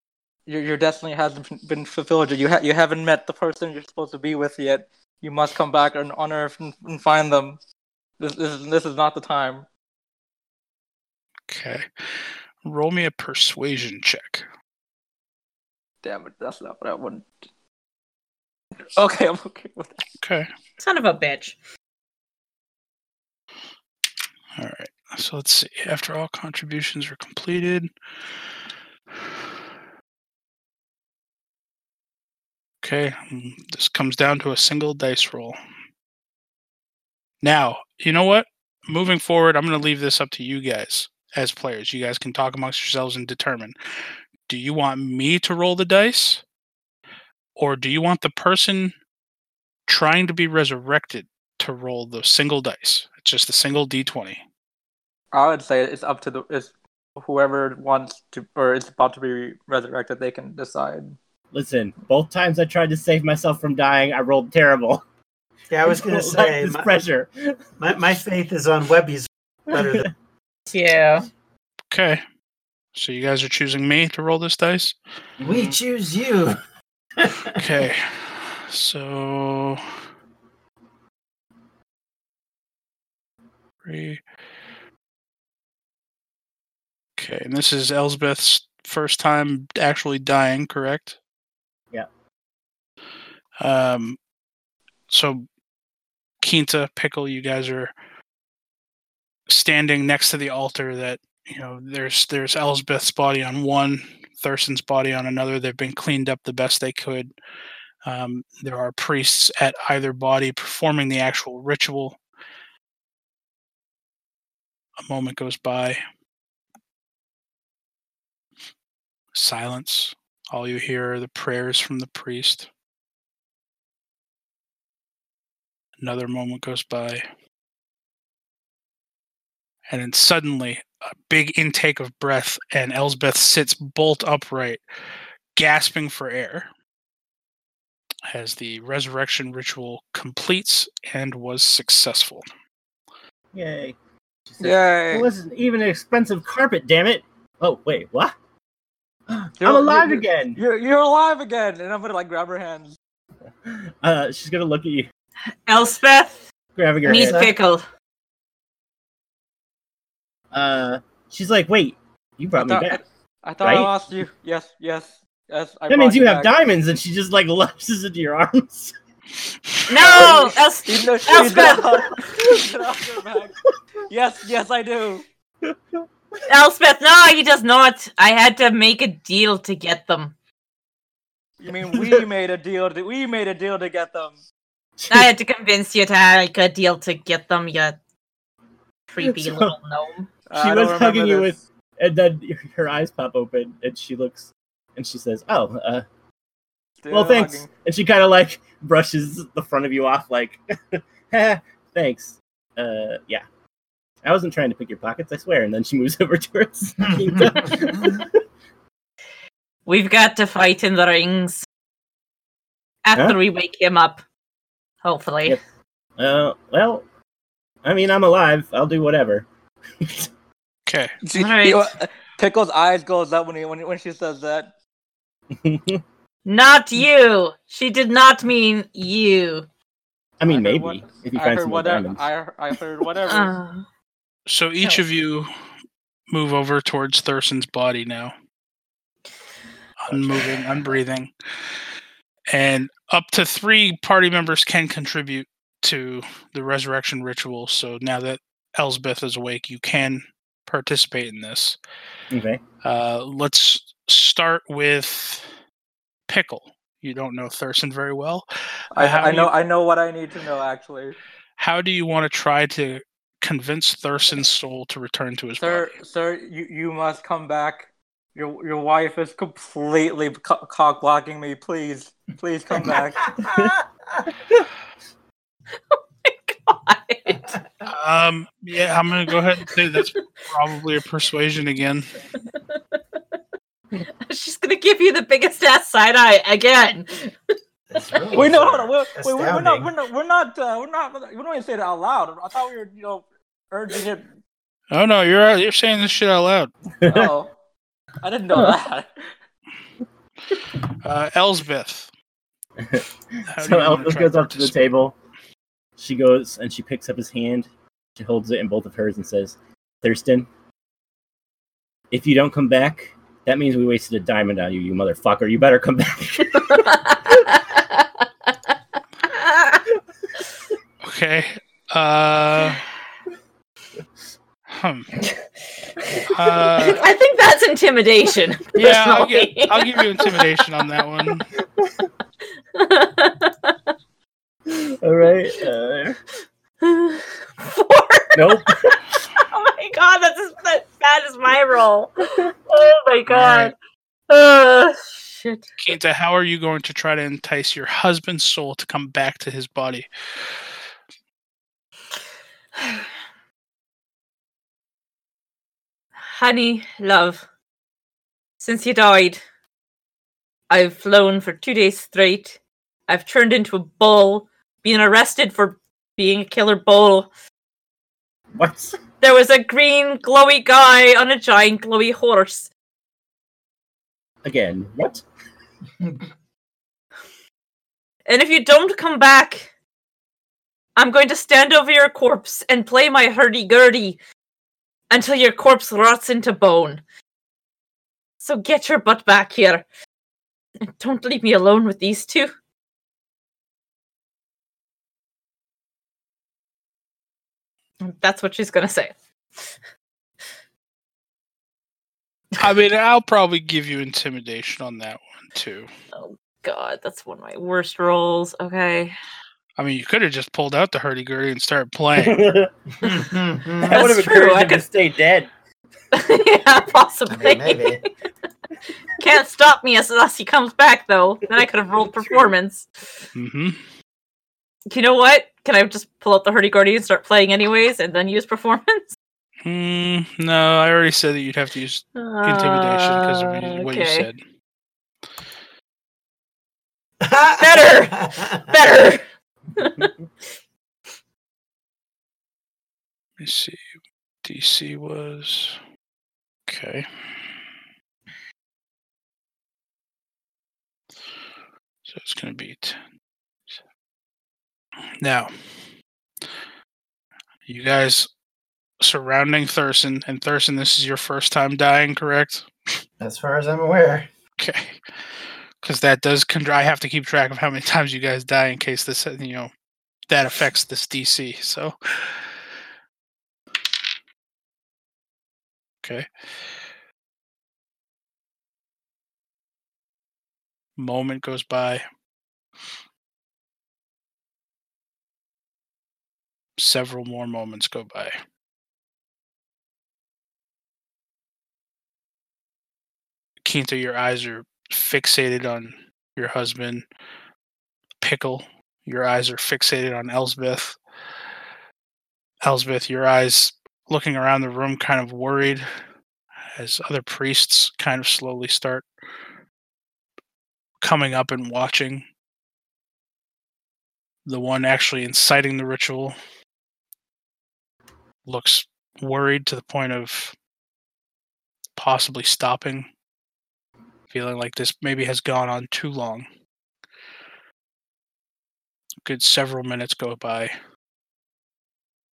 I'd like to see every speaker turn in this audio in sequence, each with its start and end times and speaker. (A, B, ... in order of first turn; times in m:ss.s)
0:00.5-0:07.6 A
0:08.2-0:09.7 A
0:11.5-0:14.5 B
0:16.0-0:17.3 A
0:19.0-0:20.0 A
0:20.2-0:20.5 B
0:20.8-0:21.6 C
0:24.6-0:27.9 B
0:32.8-0:35.6 B
0:37.4-0:43.8 B
0:44.5-0:46.4 B
0:47.6-0:49.0 B
0:49.9-0:54.4 B
0:55.3-1:01.2 A
1:01.5-1:05.0 D
1:05.7-1:06.9 E
1:05.9-1:07.6 D
1:07.8-1:10.1 E
1:09.7-1:10.1 D
1:10.7-1:11.3 C
1:11.9-1:12.2 B
1:13.0-1:15.0 B
1:15.4-1:15.8 D
1:15.4-1:16.6 E
1:17.2-1:17.6 E
1:17.6-1:19.8 B
1:23.8-1:24.2 B
1:27.2-1:31.2 B
1:33.6-1:34.2 B
1:35.1-1:35.4 B
1:36.4-1:37.9 B
1:39.5-1:47.3 B
1:48.0-1:52.2 B
1:55.0-1:56.0 B
1:59.3-2:02.7 B
2:06.0-2:07.2 B
2:09.9-2:14.8 B
2:15.6-2:16.7 B
2:18.3-2:22.4 B
2:23.5-2:24.0 D
2:24.5-2:28.4 D
2:24.6-2:25.3 A
2:29.3-2:30.6 D
2:29.6-2:33.0 A
2:33.7-2:35.1 D
2:35.7-2:36.4 C
2:36.8-2:37.5 D
2:37.0-2:37.5 E
2:37.0-2:37.8 C
2:40.5-2:43.0 D
2:42.6-2:46.5 A
2:43.6-2:43.9 D
2:45.9-2:48.9 D
2:49.9-2:52.2 C
2:50.0-2:53.6 A
2:54.1-2:55.2 A
2:56.5-3:00.4 C
3:01.6-3:04.4 A
3:01.9-3:02.2 D
3:05.0-3:05.3 D
3:05.1-3:08.0 C
3:09.1-3:10.3 C
3:09.2-3:09.7 D
3:10.5-3:11.6 A
3:10.6-3:16.0 D
3:17.0-3:17.7 A
3:17.1-3:23.4 D
3:24.2-3:28.4 D
3:29.9-3:31.6 C
3:33.0-3:34.2 C
3:35.0-3:35.6 C
3:36.2-3:37.0 D
3:37.8-3:39.5 D
3:40.0-3:40.3 D
3:40.9-3:41.1 B
3:41.2-3:44.7 A
3:41.3-3:41.9 C
3:45.5-3:46.0 D
3:46.5-3:49.7 C
3:50.4-3:52.2 D
3:50.5-3:53.6 A
3:53.3-3:53.9 C
3:54.5-3:55.5 B
3:56.3-3:58.3 B
4:00.0-4:01.3 B
4:00.1-4:00.4 D
4:02.5-4:11.8 B
4:12.3-4:12.6 D
4:12.8-4:15.5 B
4:16.3-4:19.5 B
4:18.9-4:21.2 A
4:21.6-4:26.0 B
4:25.6-4:33.3 A
4:33.4-4:33.7 D
4:35.9-4:37.6 C
4:37.8-4:42.2 B
4:42.5-4:42.8 C
4:44.0-4:47.4 C
4:47.9-4:49.9 E
4:48.3-4:54.3 A
4:54.9-4:56.7 B
4:57.0-4:57.3 D
4:57.0-4:57.5 A
4:58.2-4:59.1 A
5:01.0-5:02.1 B
5:02.8-5:05.2 D
5:03.5-5:04.8 B
5:06.0-5:10.5 D
5:12.1-5:17.1 D
5:16.6-5:18.7 C
5:19.3-5:19.8 C
5:21.0-5:22.8 B
5:24.7-5:25.1 B
5:26.3-5:27.0 B
5:26.8-5:30.5 C
5:28.8-5:31.5 B
5:32.8-5:33.8 C
5:34.7-5:36.2 D
5:36.8-5:43.7 C
5:38.4-5:39.0 D
5:43.3-5:43.7 B
5:44.3-5:45.7 C
5:45.8-5:50.1 B
5:52.8-5:53.1 C
5:56.3-5:57.4 C
5:58.6-5:59.4 C
6:00.7-6:07.3 C
6:08.6-6:09.0 D
6:09.2-6:12.7 C
6:14.4-6:15.2 D
6:18.3-6:19.7 C
6:21.0-6:24.2 C
6:25.1-6:27.0 C
6:28.4-6:29.8 C
6:31.0-6:32.5 C
6:38.0-6:39.1 C
6:42.6-6:45.9 B
6:46.1-6:49.2 C
6:49.8-6:52.5 B
6:52.2-6:52.7 D
6:53.0-6:54.0 E
6:53.8-6:54.8 C
6:53.8-6:55.5 D
6:56.1-6:58.1 C
6:57.3-6:58.0 E
6:59.2-7:03.3 C
7:03.4-7:03.8 B
7:04.9-7:09.1 C
7:09.6-7:14.4 B
7:12.2-7:14.3 C
7:17.2-7:18.7 E
7:17.6-7:20.1 C
7:23.4-7:23.8 B
7:24.4-7:25.8 B
7:26.7-7:27.1 B
7:32.0-7:33.0 B
7:35.2-7:35.5 B
7:37.7-7:38.3 B
7:39.0-7:42.7 B
7:43.2-7:44.3 E
7:44.6-7:45.0 B
7:45.8-7:49.7 B
7:50.3-7:52.5 B
8:01.0-8:02.0 B
8:06.8-8:08.4 B
8:13.6-8:17.0 B
8:18.2-8:21.0 B
8:22.6-8:25.9 B
8:26.8-8:29.1 B
8:31.0-8:32.2 B
8:34.5-8:36.4 B
8:38.5-8:40.6 B
8:42.0-8:43.1 B
8:44.3-8:46.5 B
8:49.2-8:50.7 B